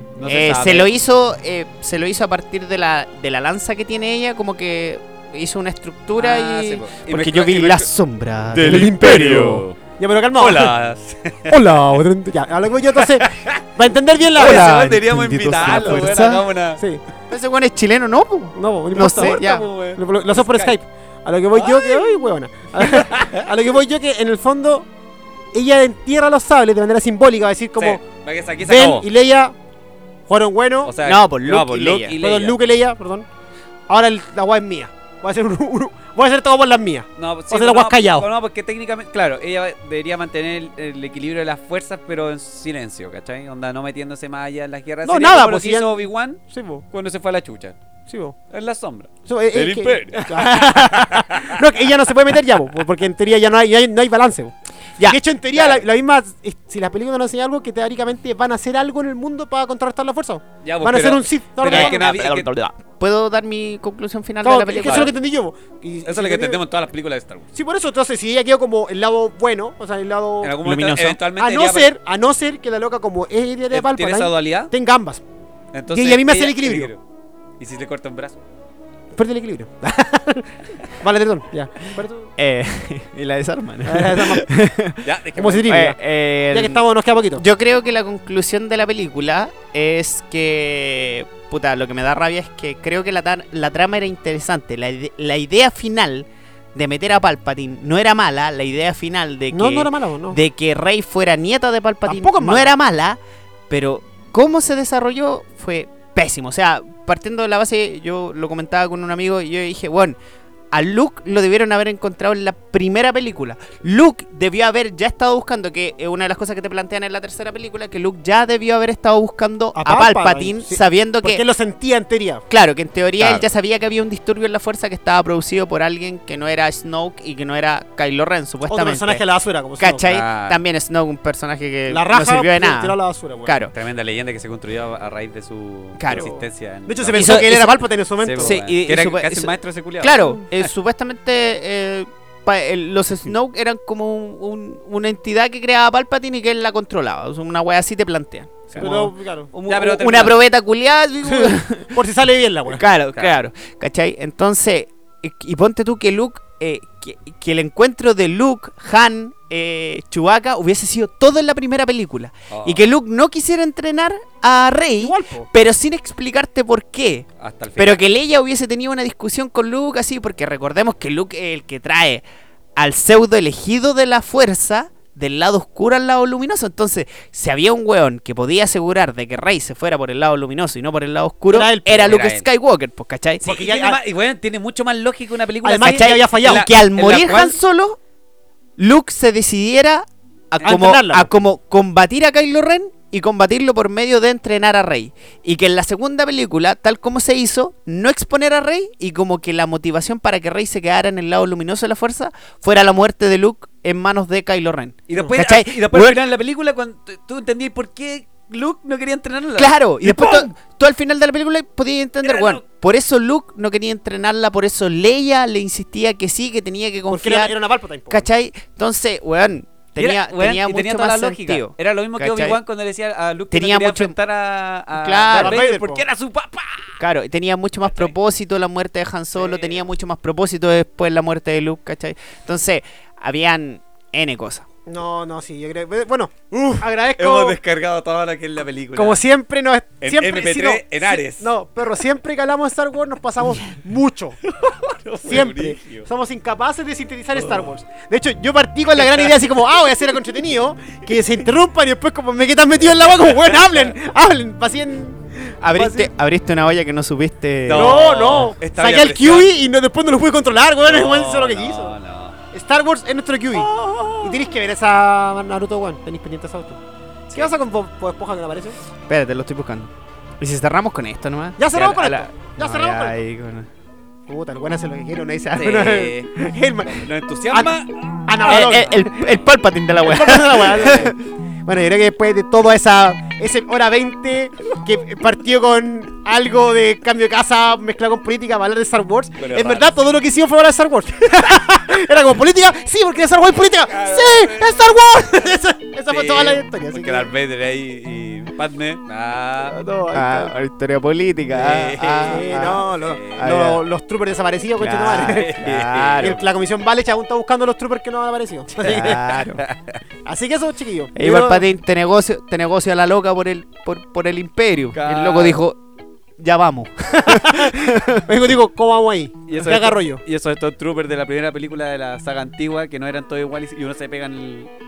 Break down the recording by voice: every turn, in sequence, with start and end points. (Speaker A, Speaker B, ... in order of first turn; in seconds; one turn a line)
Speaker A: 0.2-0.9
Speaker B: 0.2-9.6
Speaker A: 6.1-7.9
Speaker A: 8.5-9.8
Speaker C: 8.6-10.7
Speaker A: 10.3-11.6
Speaker C: 11.5-14.7
Speaker A: 13.0-13.6
Speaker A: 14.3-16.8
Speaker B: 14.3-16.4
Speaker C: 15.6-16.0
Speaker B: 17.3-19.7
Speaker C: 18.6-24.9
Speaker A: 19.0-20.8
Speaker A: 21.5-22.1
Speaker A: 22.8-23.5
Speaker C: 25.5-28.0
Speaker A: 27.8-29.1
Speaker C: 28.6-29.5
Speaker C: 30.3-30.9
Speaker A: 30.8-32.6
Speaker B: 31.0-32.2
Speaker C: 32.2-33.2
Speaker C: 33.9-38.3
Speaker A: 37.2-47.8
Speaker C: 45.0-46.8
Speaker C: 48.1-48.3
Speaker A: 48.5-51.6
Speaker C: 49.2-62.1
Speaker A: 55.5-55.8
Speaker A: 60.6-62.5
Speaker B: 61.6-65.1
Speaker C: 64.4-66.6
Speaker A: 64.8-65.1
Speaker A: 66.0-67.5
Speaker C: 67.5-70.6
Speaker A: 70.4-71.9
Speaker B: 70.6-71.2
Speaker C: 71.4-75.2
Speaker A: 73.7-74.7
Speaker A: 75.7-77.0
Speaker C: 75.9-76.9
Speaker A: 77.6-78.4
Speaker C: 79.1-82.3
Speaker B: 82.4-85.0
Speaker C: 83.8-84.5
Speaker A: 85.0-85.8
Speaker C: 85.4-86.0
Speaker B: 85.6-86.8
Speaker C: 86.5-87.5
Speaker B: 87.3-110.2
Speaker C: 99.5-100.4
Speaker C: 102.0-102.7
Speaker B: 110.7-121.4
Speaker C: 119.7-122.4
Speaker B: 122.5-129.2
Speaker A: 123.2-123.5
Speaker C: 128.7-130.1
Speaker B: 129.8-133.7
Speaker A: 130.0-130.6
Speaker C: 131.9-133.6
Speaker A: 133.7-137.5
Speaker B: 136.0-136.3
Speaker C: 136.1-138.6
Speaker B: 137.1-137.8
Speaker A: 138.2-140.7
Speaker B: 138.4-152.0
Speaker C: 148.8-149.5
Speaker A: 149.6-150.4
Speaker C: 151.2-152.8
Speaker B: 152.7-172.2
Speaker A: 162.5-162.8
Speaker C: 165.0-165.5
Speaker A: 167.4-168.0
Speaker B: 172.8-183.4
Speaker C: 181.5-182.2
Speaker A: 182.0-182.4
Speaker A: 183.4-187.6
Speaker C: 183.4-184.0
Speaker C: 185.7-186.7
Speaker B: 185.7-188.0
Speaker B: 188.8-206.2
Speaker C: 190.6-191.3
Speaker A: 205.1-210.5
Speaker B: 209.6-217.5
Speaker A: 212.2-212.6
Speaker C: 217.1-218.3
Speaker B: 218.1-222.6
Speaker A: 220.0-227.0
Speaker B: 223.5-224.2
Speaker B: 224.9-225.6
Speaker C: 225.3-226.0
Speaker B: 227.0-234.7
Speaker A: 227.8-228.1
Speaker A: 229.4-229.8
Speaker C: 234.8-237.6
Speaker A: 236.5-239.2
Speaker C: 238.9-244.4
Speaker A: 240.0-241.5
Speaker A: 244.4-246.1
Speaker C: 245.2-256.1
Speaker A: 247.3-247.8
Speaker A: 253.1-253.9
Speaker B: 255.6-258.4
Speaker A: 255.7-256.0
Speaker A: 257.6-259.5
Speaker C: 257.7-261.9
Speaker A: 260.8-262.4
Speaker C: 262.5-266.8
Speaker A: 263.5-264.3
Speaker C: 267.3-268.8
Speaker B: 269.1-273.7
Speaker C: 271.6-273.1
Speaker A: 271.7-272.0
Speaker C: 274.3-277.7
Speaker A: 275.6-276.3
Speaker A: 276.9-279.5
Speaker C: 278.3-279.0
Speaker B: 278.4-281.1
Speaker C: 280.0-297.3
Speaker A: 289.4-289.9
Speaker A: 293.9-294.7
Speaker A: 296.1-299.8
Speaker C: 299.7-300.5
Speaker B: 300.1-302.8
Speaker A: 301.5-303.5
Speaker C: 302.3-305.6
Speaker B: 303.4-303.8
Speaker B: 304.8-306.4
Speaker A: 304.8-306.5
Speaker C: 306.2-309.4
Speaker B: 308.8-309.6
Speaker A: 309.6-310.0
Speaker C: 310.2-311.6
Speaker B: 311.1-315.8
Speaker A: 314.9-315.6
Speaker B: 316.4-318.2
Speaker C: 317.2-320.2
Speaker A: 319.5-324.7